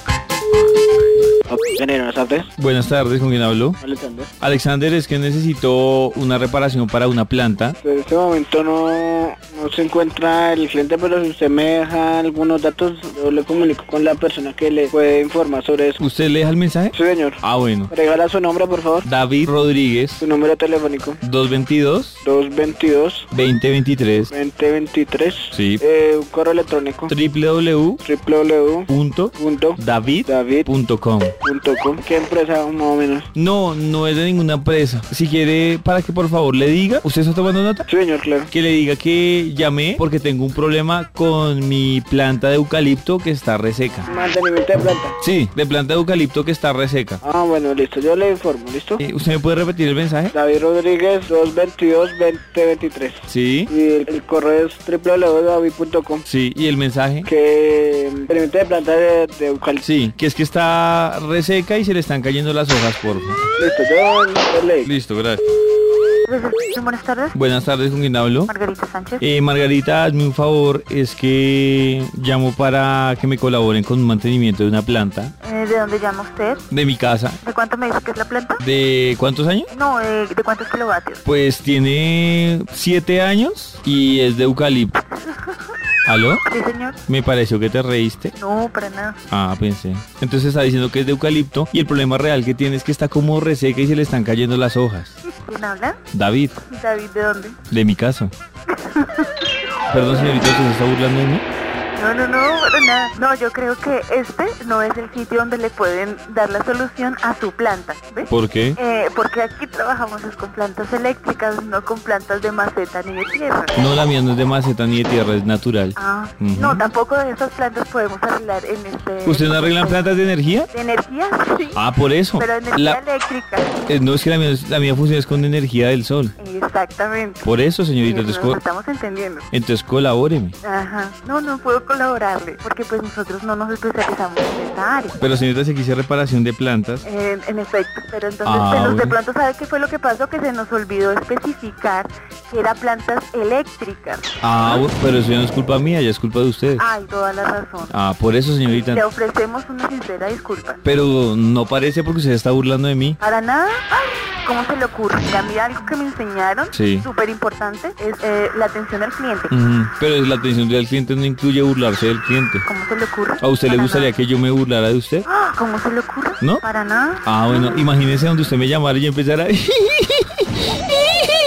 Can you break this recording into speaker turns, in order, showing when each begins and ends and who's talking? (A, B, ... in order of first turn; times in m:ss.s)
0:01.5-0:02.5 A
0:02.6-0:03.8 B
0:03.8-0:04.3 A
0:04.4-0:07.8 B
0:07.8-0:16.0 A
0:16.0-0:17.9 B
0:16.9-0:19.1 A
0:19.0-0:20.2 B
0:20.2-0:21.2 A
0:21.2-0:22.2 B
0:22.2-0:23.3 A
0:23.3-0:24.3 B
0:24.3-0:27.1 A
0:25.5-0:25.8 B
0:27.1-0:28.0 B
0:28.0-0:30.7 A
0:28.9-0:31.3 B
0:31.4-0:33.3 A
0:33.3-0:37.9 B
0:37.9-0:38.5 A
0:38.5-0:44.1 B
0:44.1-0:45.2 A
0:45.2-0:47.2 B
0:47.2-0:49.0 A
0:49.0-0:50.3 B
0:50.3-0:56.2 A
0:53.3-0:53.7 B
0:56.2-0:57.3 B
0:57.2-0:59.8 A
0:59.8-1:03.4 B
1:03.6-1:04.9 A
1:04.8-1:05.4 B
1:06.2-1:07.4 C
1:07.3-1:08.5 B
1:08.5-1:09.3 C
1:09.2-1:15.3 B
1:15.4-1:16.6 C
1:16.7-1:17.4 B
1:17.4-1:18.6 C
1:18.6-1:19.7 B
1:19.7-1:21.2 C
1:21.2-1:25.0 B
1:25.2-1:25.7 C
1:26.0-1:26.4 B
1:26.4-1:27.0 C
1:27.1-1:28.3 B
1:28.3-1:29.2 C
1:29.3-1:35.2 B
1:35.2-1:36.0 C
1:36.1-1:36.6 B
1:36.7-1:37.6 C
1:37.7-1:38.3 B
1:38.7-1:39.5 C
1:39.9-1:41.4 B
1:41.9-1:53.8 C
1:48.3-1:48.8 B
1:53.8-1:56.9 B
1:56.0-2:01.8 C
1:59.2-2:00.7 B
2:01.7-2:03.0 B
2:02.4-2:03.7 C
2:03.9-2:06.3 B
2:06.4-2:07.5 C
2:07.4-2:08.6 B
2:08.0-2:09.5 C
2:09.5-2:10.6 B
2:10.6-2:15.2 C
2:15.2-2:17.0 B
2:17.0-2:24.9 C
2:18.4-2:19.2 B
2:24.4-2:26.8 B
2:26.8-2:27.9 C
2:27.9-2:29.0 B
2:28.7-2:30.8 C
2:30.8-2:33.2 B
2:33.2-2:39.5 C
2:36.7-2:37.1 B
2:39.5-2:42.7 B
2:42.6-2:44.1 C
2:43.4-2:45.2 B
2:45.2-2:47.9 C
2:47.2-2:50.5 B